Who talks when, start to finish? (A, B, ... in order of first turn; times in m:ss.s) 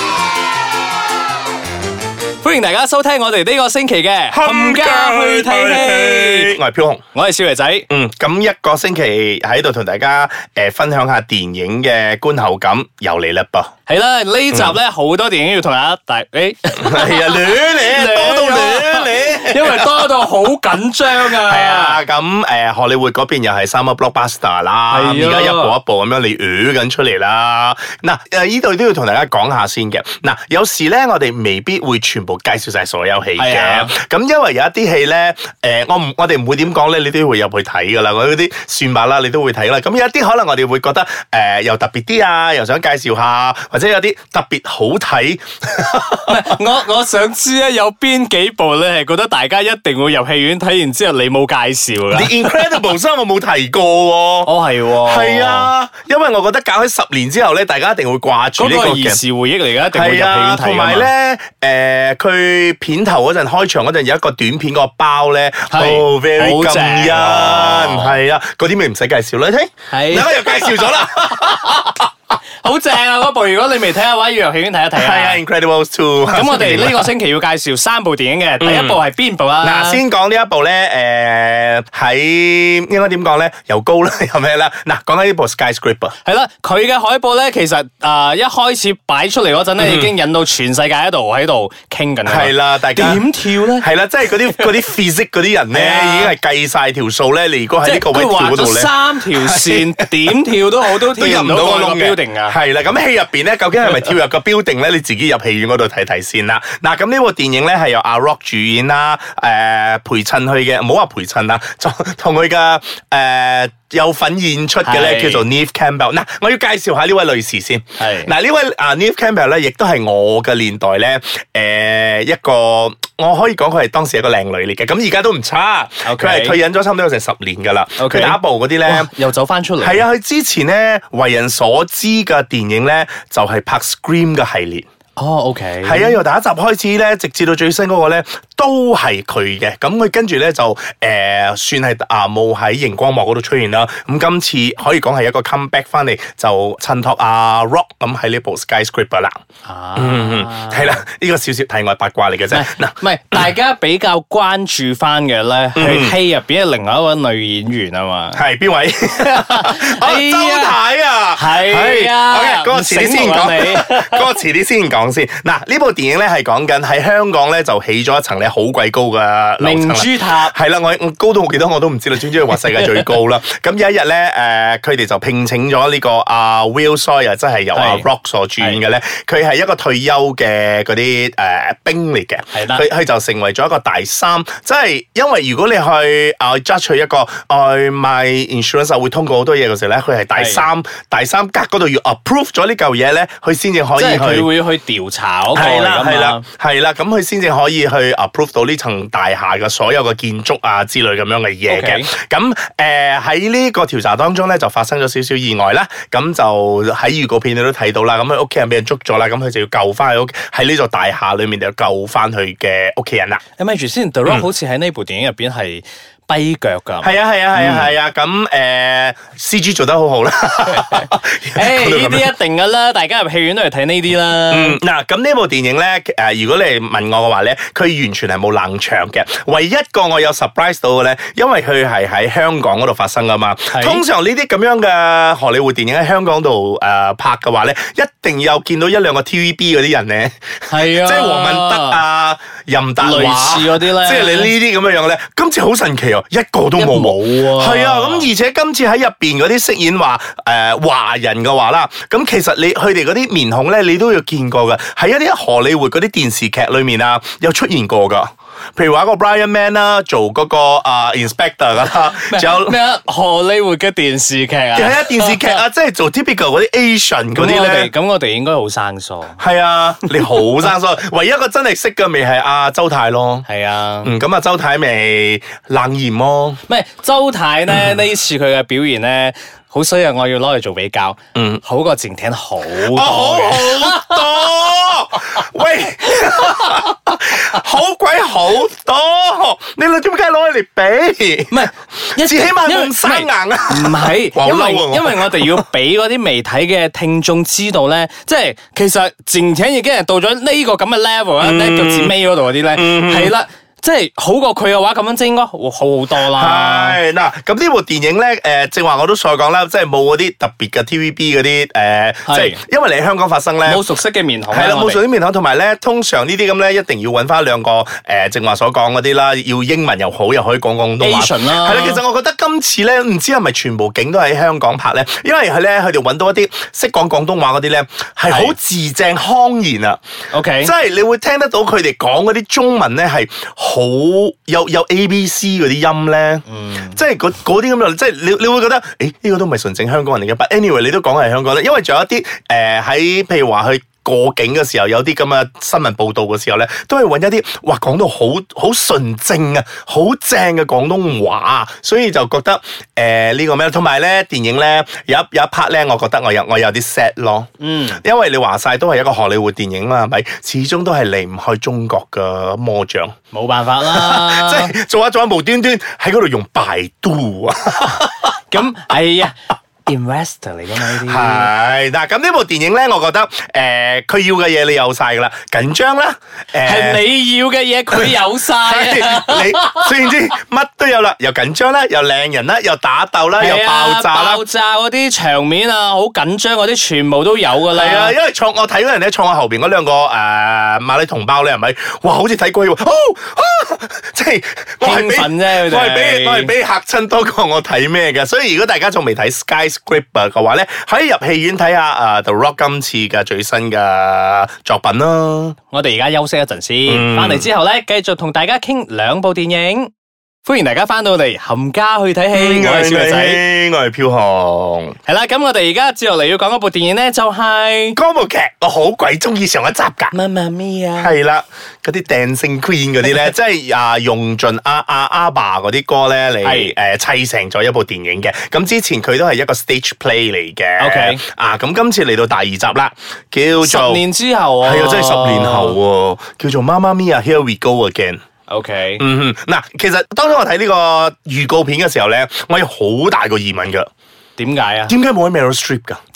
0:02.4-0:06.6 A
0:04.3-0:07.0 B
0:07.1-0:07.9 A
0:07.9-0:13.7 B
0:13.9-0:22.0 A
0:16.8-0:20.1 B
0:21.1-0:46.6 B
0:24.9-0:25.7 A
0:33.4-0:33.9 A
0:46.3-0:52.8 A
0:52.1-0:54.5 B
0:54.4-0:55.7 A
0:55.0-0:59.2 B
0:58.6-1:01.1 A
0:59.9-1:12.0 B
1:05.7-1:08.2 A
1:09.9-1:11.5 A
1:12.6-1:15.4 A
1:14.9-1:17.1 B
1:16.3-1:20.0 A
1:18.6-1:19.0 B
1:19.6-1:26.1 B
1:26.2-1:33.9 A
1:29.8-1:30.1 B
1:32.2-1:40.4 B
1:35.7-1:36.3 A
1:37.8-1:42.6 A
1:40.9-2:09.1 B
1:54.8-1:55.4 A
1:58.0-1:58.3 A
2:06.0-2:06.6 A
2:08.0-2:10.0 A
2:09.8-2:14.8 B
2:15.2-2:16.2 A
2:15.8-2:29.4 B
2:29.6-2:31.0 A
2:30.0-2:33.5 B
2:32.5-2:38.4 A
2:35.8-2:36.2 B
2:38.3-3:14.5 B
2:39.2-2:40.8 A
2:41.3-2:44.3 A
2:49.6-2:50.5 A
2:57.7-2:58.1 A
3:02.5-3:02.9 A
3:10.3-3:10.6 A
3:14.0-3:16.4 A
3:15.5-3:33.4 B
3:21.7-3:22.1 A
3:33.6-3:37.9 A
3:37.0-3:42.3 B
3:40.7-3:44.8 A
3:44.5-4:22.8 B
3:53.7-3:54.0 A
4:00.7-4:02.0 A
4:03.0-4:04.5 A
4:06.8-4:08.3 A
4:21.9-4:25.6 A
4:24.7-4:27.9 B
4:27.3-4:29.4 A
4:29.4-4:33.4 B
4:33.4-4:34.1 A
4:34.0-4:36.6 B
4:36.7-4:44.7 A
4:41.3-4:41.6 B
4:42.7-4:55.7 B
4:46.0-4:46.8 A
4:51.5-5:07.0 A
5:01.4-5:02.2 B
5:02.7-5:03.3 B
5:06.1-5:13.8 B
5:12.3-5:12.6 A
5:13.6-5:15.0 A
5:14.5-5:30.0 B
5:21.0-5:22.0 A
5:28.3-5:28.5 A
5:30.3-5:30.7 A
5:30.6-6:03.1 B
5:36.5-5:37.0 A
5:57.6-5:58.0 A
6:03.3-6:04.7 A
6:03.8-6:08.6 B
6:08.5-6:09.3 A
6:09.9-6:11.5 A
6:10.9-6:17.0 B
6:16.6-6:20.0 A
6:17.9-6:24.4 B
6:23.4-6:28.1 A
6:27.7-6:45.6 B
6:34.8-6:36.5 A
6:45.7-6:49.9 A
6:46.8-6:47.5 B
6:50.4-6:53.4 A
6:52.3-6:55.0 B
6:55.0-6:58.0 A
6:57.9-7:00.1 B
7:00.1-7:01.1 A
7:01.0-7:14.0 B
7:06.4-7:06.7 A
7:10.8-7:11.2 A
7:13.6-7:15.8 A
7:14.6-7:18.2 B
7:18.5-7:19.0 A
7:19.0-7:23.9 B
7:24.4-7:24.9 A
7:24.9-7:26.0 B